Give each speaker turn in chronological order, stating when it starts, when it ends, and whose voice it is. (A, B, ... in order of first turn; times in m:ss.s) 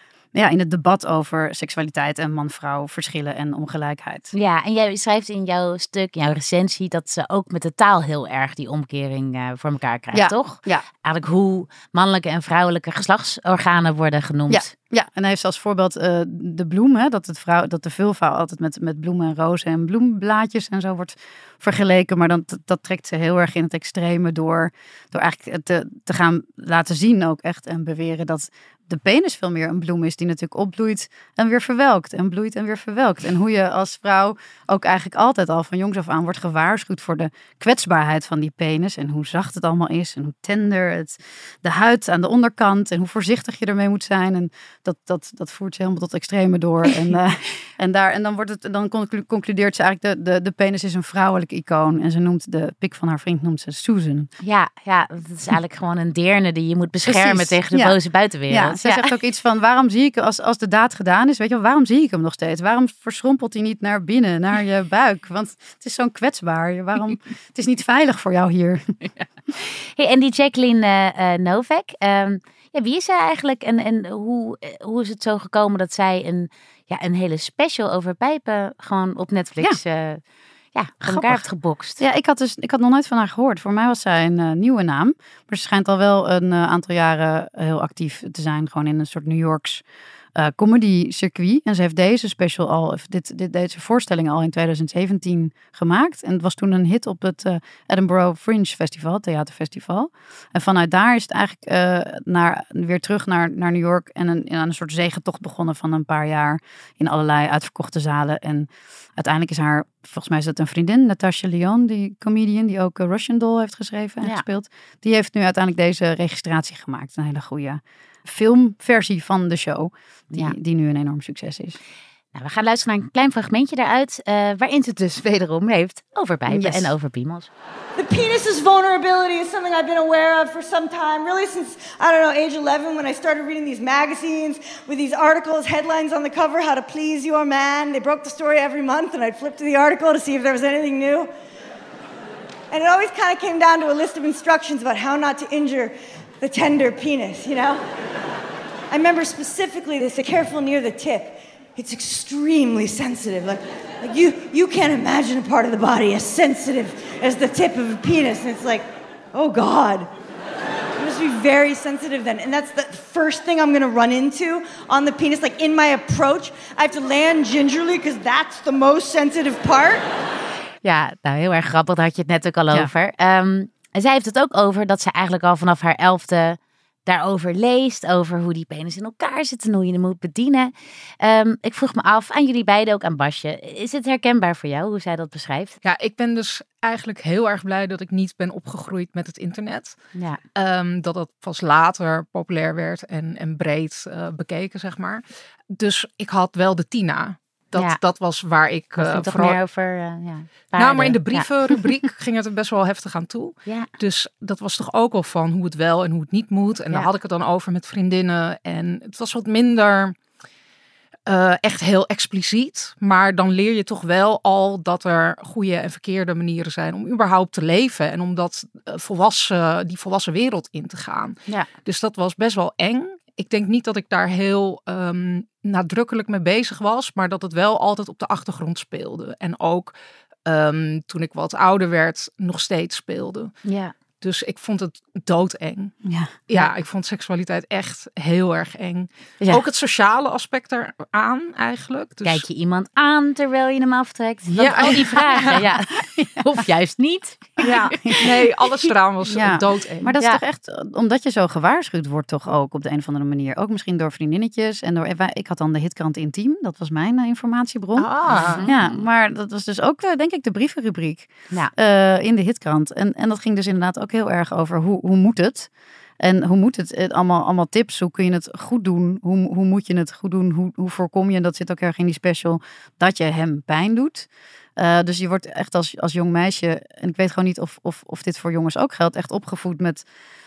0:00.3-0:04.3 A
0:04.3-0:14.7 B
0:10.1-0:10.8 A
0:14.5-0:54.3 A
0:54.4-0:59.1 B
0:57.0-0:58.0 A
0:58.5-1:09.0 A
1:09.6-1:20.2 B
1:20.7-1:22.0 B
1:21.0-1:21.5 A
1:22.0-1:29.8 A
1:30.3-2:01.8 A
2:02.3-2:07.5 B
2:06.5-2:06.9 A
2:08.0-2:21.3 C
2:22.7-2:27.8 C
2:28.9-2:40.1 C
2:41.0-2:50.1 C
2:50.8-3:05.8 B
3:05.8-3:10.0 D
3:10.1-3:10.4 B
3:10.5-3:15.2 D
3:15.7-3:19.6 D
3:17.7-3:18.0 B
3:19.0-3:21.5 B
3:20.8-3:30.2 D
3:31.2-3:49.9 D
3:50.4-3:53.5 D
3:53.6-3:53.9 B
3:54.2-3:56.0 D
3:56.0-3:56.3 A
3:56.5-4:02.4 D
4:02.2-4:08.2 B
4:04.6-4:05.6 D
4:04.8-4:06.6 A
4:07.6-4:10.1 D
4:09.3-4:18.1 A
4:18.0-4:18.6 D
4:18.3-4:19.0 B
4:18.6-4:40.1 A